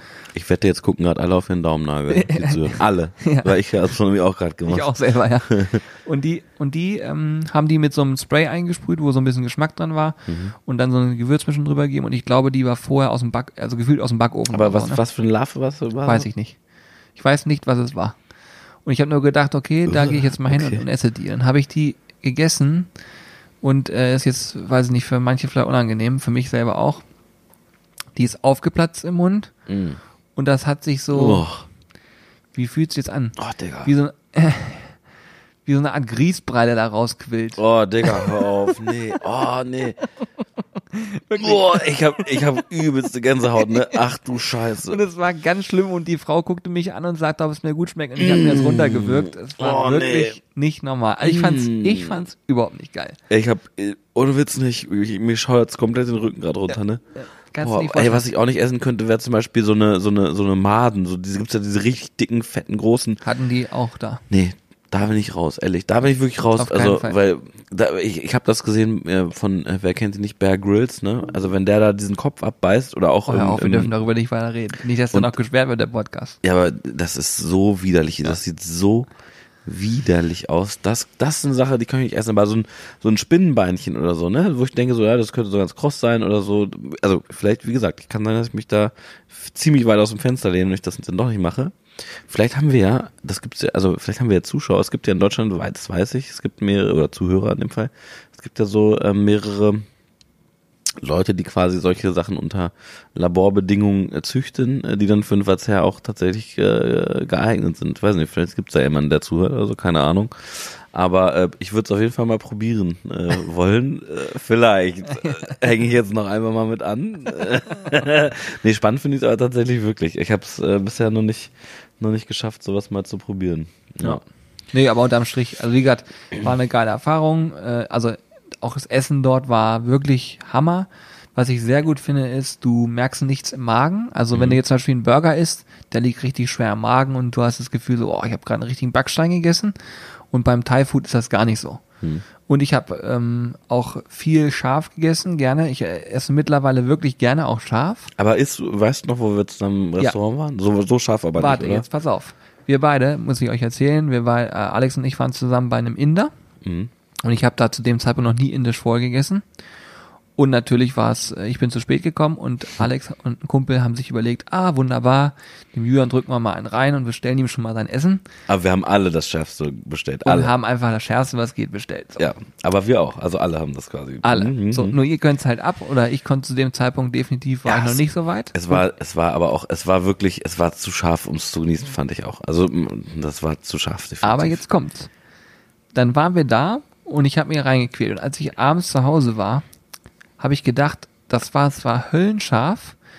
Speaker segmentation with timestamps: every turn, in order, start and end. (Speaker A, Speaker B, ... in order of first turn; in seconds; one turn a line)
Speaker A: 0.3-4.9
Speaker B: 2.1-3.5
Speaker B: 4.7-15.0
Speaker A: 5.5-5.8
Speaker A: 10.3-10.5
Speaker A: 14.5-16.3
Speaker B: 16.1-16.6
Speaker B: 17.1-18.1
Speaker B: 18.9-22.9
Speaker A: 19.9-20.9
Speaker B: 23.6-27.1
Speaker B: 28.1-29.5
Speaker A: 29.7-30.0
Speaker B: 30.4-31.4
Speaker A: 31.1-31.6
Speaker B: 32.5-34.9
Speaker A: 33.4-33.9
Speaker B: 35.6-38.8
Speaker A: 37.6-40.0
Speaker B: 40.9-42.4
Speaker A: 41.4-45.0
Speaker B: 43.6-44.0
Speaker B: 44.9-53.2
Speaker A: 48.2-50.4
Speaker A: 51.2-52.2
Speaker A: 53.3-57.0
Speaker B: 57.2-58.3
Speaker A: 57.6-63.2
Speaker B: 63.2-64.2
Speaker A: 64.3-73.9
Speaker B: 66.6-67.2
Speaker B: 73.3-76.4
Speaker A: 76.4-79.1
Speaker A: 79.7-99.8
Speaker A: 101.0-124.2
Speaker B: 115.1-115.6
Speaker B: 124.7-139.7
Speaker A: 134.3-134.6
Speaker B: 140.3-141.8
Speaker B: 142.5-148.1
Speaker A: 148.2-151.8
Speaker B: 151.4-156.3
Speaker A: 156.6-156.9
Speaker B: 157.2-159.4
Speaker B: 160.4-168.2
Speaker A: 168.5-170.5
Speaker B: 170.2-172.2
Speaker A: 172.2-175.0
Speaker B: 174.2-178.8
Speaker A: 177.7-184.6
Speaker B: 184.2-185.1
Speaker B: 185.9-189.6
Speaker B: 190.4-193.0